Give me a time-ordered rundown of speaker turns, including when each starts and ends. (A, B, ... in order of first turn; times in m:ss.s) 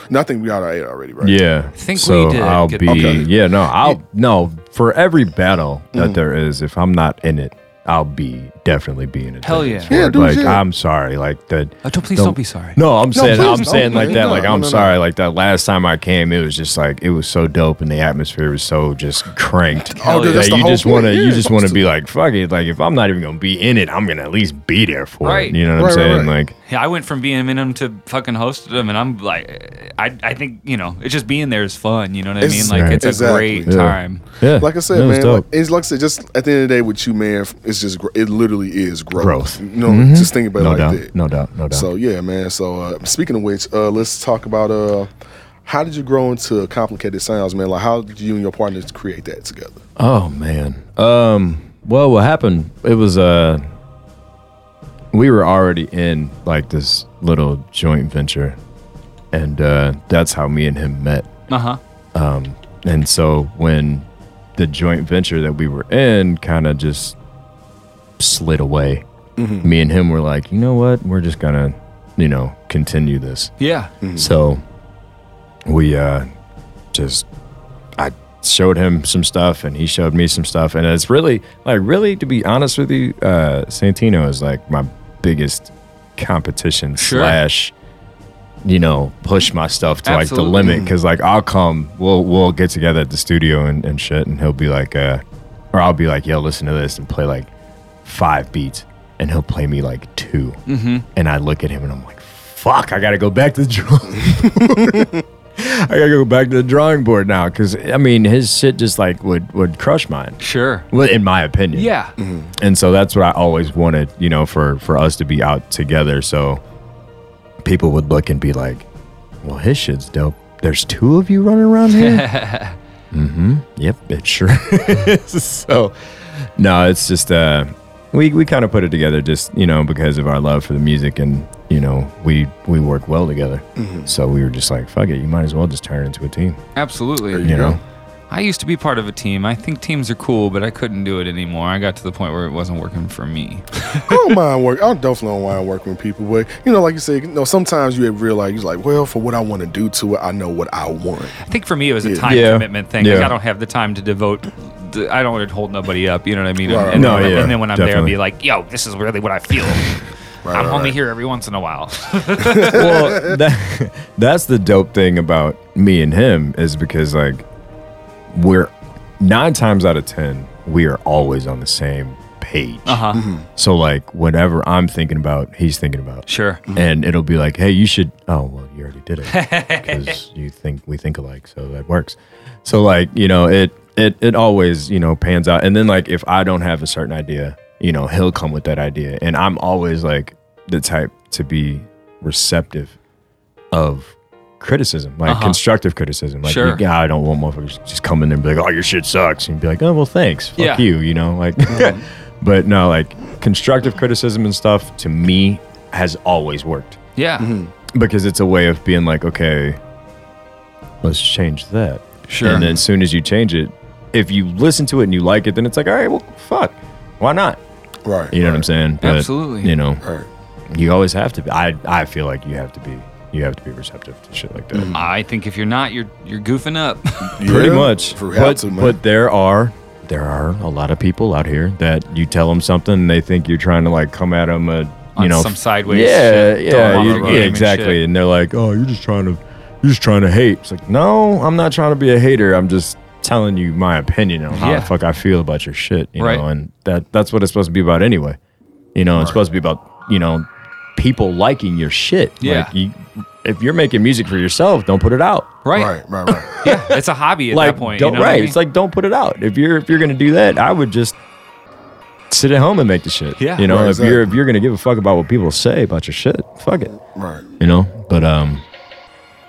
0:00.1-0:01.4 A
0:01.2-0:26.5 B
0:01.8-0:03.3 C
0:02.8-0:03.3 A
0:09.4-0:10.0 C
0:09.9-0:10.6 A
0:11.8-0:14.3 C
0:13.1-0:15.0 A
0:19.9-0:20.6 C
0:20.0-0:21.8 A
0:25.2-0:25.6 C
0:25.7-0:26.3 A
0:26.7-0:34.2 C
0:32.4-0:33.7 A
0:32.6-0:33.1 B
0:33.6-0:35.4 B
0:34.6-0:41.1 A
0:39.1-0:41.9 B
0:41.7-0:45.1 A
0:45.6-0:49.8 A
0:50.0-0:53.6 B
0:55.1-0:58.6 B
0:59.3-1:01.3 B
1:01.5-1:01.8 C
1:02.1-1:07.2 B
1:08.2-1:09.0 B
1:09.4-1:09.7 A
1:09.6-1:13.5 B
1:13.6-1:13.9 C
1:14.0-1:14.3 A
1:14.2-1:14.6 B
1:15.6-1:16.3 B
1:16.9-1:17.2 B
1:18.0-1:27.7 B
1:27.0-1:27.4 C
1:28.6-1:37.5 B
1:30.0-1:30.8 C
1:30.6-1:30.9 A
1:38.0-1:40.6 B
1:40.7-1:41.0 C
1:41.1-1:51.9 B
1:44.7-1:45.1 A
1:50.4-1:50.9 C
1:51.7-1:52.1 C
1:52.2-1:52.5 A
1:52.6-1:56.6 B
1:57.6-1:58.9 B
1:59.4-2:02.3 B
2:01.9-2:02.8 C
2:03.1-2:16.6 B
2:13.8-2:14.1 A
2:16.8-2:17.6 C
2:17.3-2:17.8 A
2:17.4-2:17.8 B
2:18.3-2:24.2 C
2:24.0-2:31.4 A
2:31.4-2:39.9 C
2:32.0-2:32.3 A
2:32.2-2:33.4 B
2:36.6-2:37.5 A
2:36.9-2:38.2 B
2:40.4-2:41.0 A
2:40.5-2:43.0 C
2:42.4-2:43.3 A
2:42.6-2:47.4 B
2:48.3-3:12.9 B
2:52.8-2:53.2 C
2:53.1-2:53.4 A
2:56.3-2:56.6 C
2:59.3-3:00.1 C
3:13.7-3:27.0 B
3:15.2-3:15.6 C
3:16.4-3:16.8 C
3:20.6-3:20.9 C
3:21.7-3:22.0 A
3:27.2-3:27.5 C
3:27.4-3:27.7 A
3:27.9-3:29.8 B
3:31.0-3:37.6 B
3:32.3-3:32.7 C
3:32.5-3:32.8 A
3:38.0-3:38.7 A
3:38.3-3:40.0 B
3:39.0-3:39.7 C
3:40.0-3:40.3 A
3:40.7-3:45.0 B
3:44.7-3:45.1 A
3:44.9-3:47.4 C
3:47.4-3:49.0 A
3:47.4-4:08.4 B
3:55.2-3:58.0 C
3:56.9-3:57.4 A
4:04.5-4:04.9 C
4:06.2-4:06.4 C
4:08.9-4:15.6 B
4:12.4-4:12.7 C
4:15.6-4:15.9 C
4:15.7-4:16.6 A
4:16.5-4:17.0 B
4:16.5-4:18.6 C
4:17.5-4:21.2 B
4:22.3-4:27.0 B
4:23.4-4:23.7 C
4:23.6-4:24.3 A
4:27.1-4:27.5 A
4:27.6-4:28.6 B